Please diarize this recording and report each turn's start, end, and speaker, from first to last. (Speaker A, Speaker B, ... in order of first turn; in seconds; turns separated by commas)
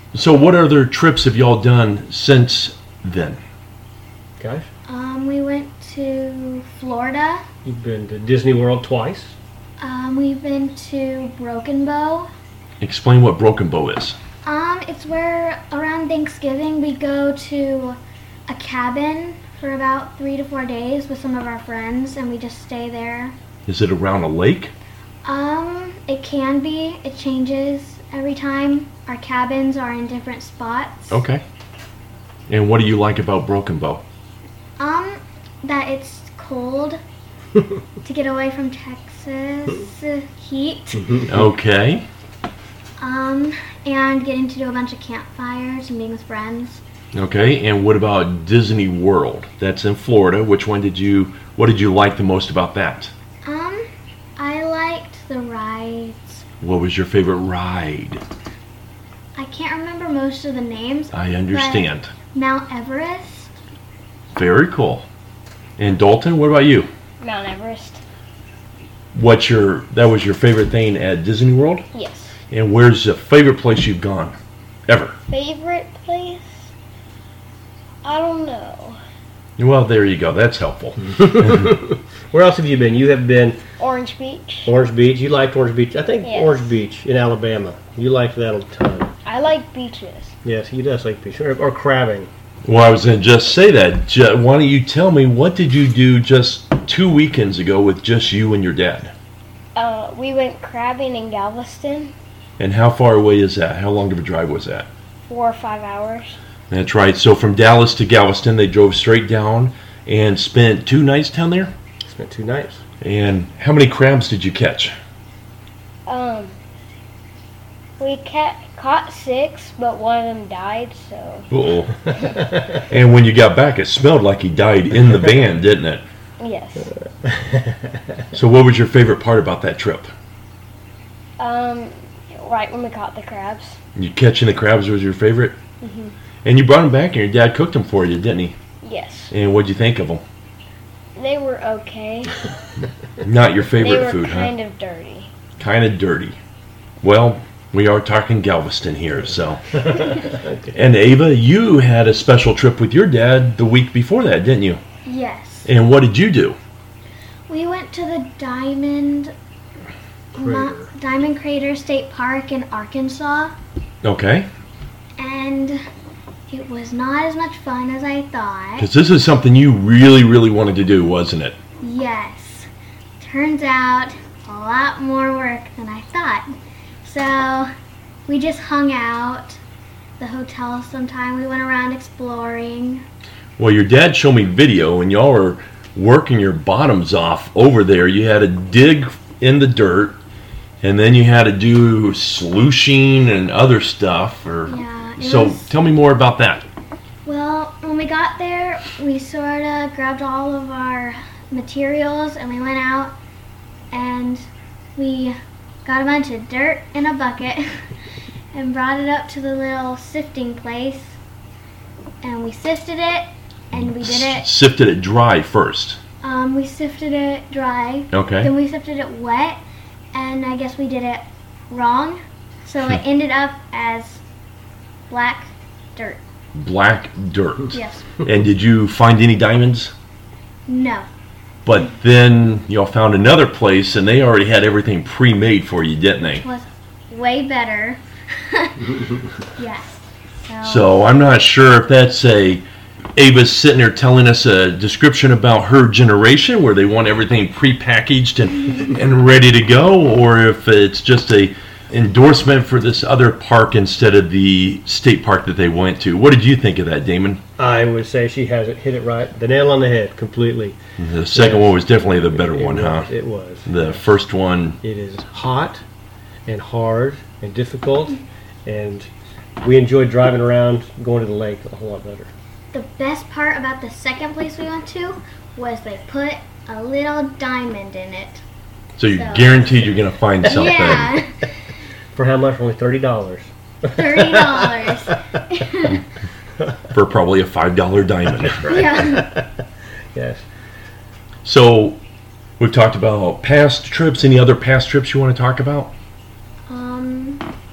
Speaker A: 0.1-3.4, Speaker B: 4.4-4.7, Speaker C: 4.9-7.4, Speaker B: 7.6-9.3, Speaker C: 9.8-12.3, Speaker A: 12.8-14.2, Speaker C: 14.4-23.4, Speaker A: 23.7-24.7, Speaker C: 25.2-31.2, Speaker A: 31.1-31.4, Speaker A: 32.5-34.0, Speaker C: 34.8-37.0, Speaker C: 38.0-41.2, Speaker A: 41.2-42.0, Speaker C: 43.0-46.8, Speaker A: 47.1-53.1, Speaker C: 53.4-56.4, Speaker A: 56.6-58.2, Speaker C: 59.3-63.5, Speaker A: 61.1-62.1, Speaker A: 64.3-65.0, Speaker A: 65.8-66.9, Speaker D: 67.2-68.0, Speaker A: 69.1-71.8, Speaker D: 71.9-72.3, Speaker A: 72.5-74.3, Speaker A: 74.9-75.2, Speaker D: 75.3-76.7, Speaker D: 78.0-79.0, Speaker A: 79.6-81.5, Speaker B: 81.2-83.6, Speaker D: 83.8-84.7, Speaker B: 84.7-89.1, Speaker D: 86.2-86.7, Speaker D: 89.2-90.3, Speaker B: 90.4-92.3, Speaker A: 92.6-99.1, Speaker D: 99.7-102.1, Speaker A: 102.6-104.9, Speaker D: 105.3-106.4, Speaker A: 106.7-111.7, Speaker B: 112.0-112.8, Speaker A: 113.0-115.0, Speaker D: 116.1-116.5, Speaker D: 118.0-121.5, Speaker A: 121.5-122.0, Speaker A: 122.7-126.0, Speaker D: 126.4-126.9, Speaker B: 127.2-128.0, Speaker A: 128.3-130.1, Speaker D: 131.4-133.8, Speaker A: 133.9-135.6, Speaker D: 135.8-136.1, Speaker A: 136.4-138.6, Speaker D: 138.8-139.3, Speaker A: 139.3-140.2, Speaker D: 141.2-142.5, Speaker A: 143.2-144.5, Speaker D: 143.8-145.3, Speaker A: 145.6-146.4, Speaker A: 147.0-149.7, Speaker B: 149.8-150.8, Speaker A: 150.7-154.8, Speaker C: 155.0-155.7, Speaker A: 155.6-156.6, Speaker C: 157.5-159.3, Speaker C: 160.3-163.5, Speaker B: 160.4-160.9, Speaker A: 164.0-164.5, Speaker C: 165.2-165.8, Speaker C: 166.5-168.9, Speaker A: 168.8-171.6, Speaker C: 171.8-172.7, Speaker C: 173.2-176.5, Speaker C: 177.0-177.7, Speaker C: 178.3-179.6, Speaker C: 180.2-183.0, Speaker A: 183.6-190.2, Speaker A: 190.8-196.6, Speaker C: 194.7-195.7, Speaker C: 197.2-203.1, Speaker C: 203.9-207.8, Speaker C: 208.5-211.2, Speaker C: 212.2-214.5, Speaker A: 214.0-216.0, Speaker C: 216.2-219.6, Speaker A: 218.1-218.5, Speaker C: 220.1-224.2, Speaker C: 225.1-226.2, Speaker A: 226.5-229.9, Speaker C: 227.7-228.1, Speaker C: 230.7-231.1, Speaker A: 231.6-236.4, Speaker C: 236.4-238.9, Speaker C: 239.6-239.9, Speaker C: 240.5-240.9, Speaker A: 240.6-242.6, Speaker A: 243.2-257.4, Speaker B: 257.6-260.8, Speaker A: 261.0-263.1, Speaker B: 261.3-264.0, Speaker A: 263.6-264.8, Speaker B: 264.8-265.8, Speaker B: 266.4-269.1, Speaker B: 269.6-272.3, Speaker C: 272.7-278.4, Speaker A: 279.0-281.2, Speaker C: 279.1-281.5, Speaker B: 282.1-285.2, Speaker C: 283.9-286.0, Speaker A: 286.9-288.8, Speaker B: 288.5-289.5, Speaker C: 288.6-289.3, Speaker B: 290.1-290.4, Speaker A: 291.4-292.0, Speaker A: 292.6-295.9, Speaker C: 296.7-297.4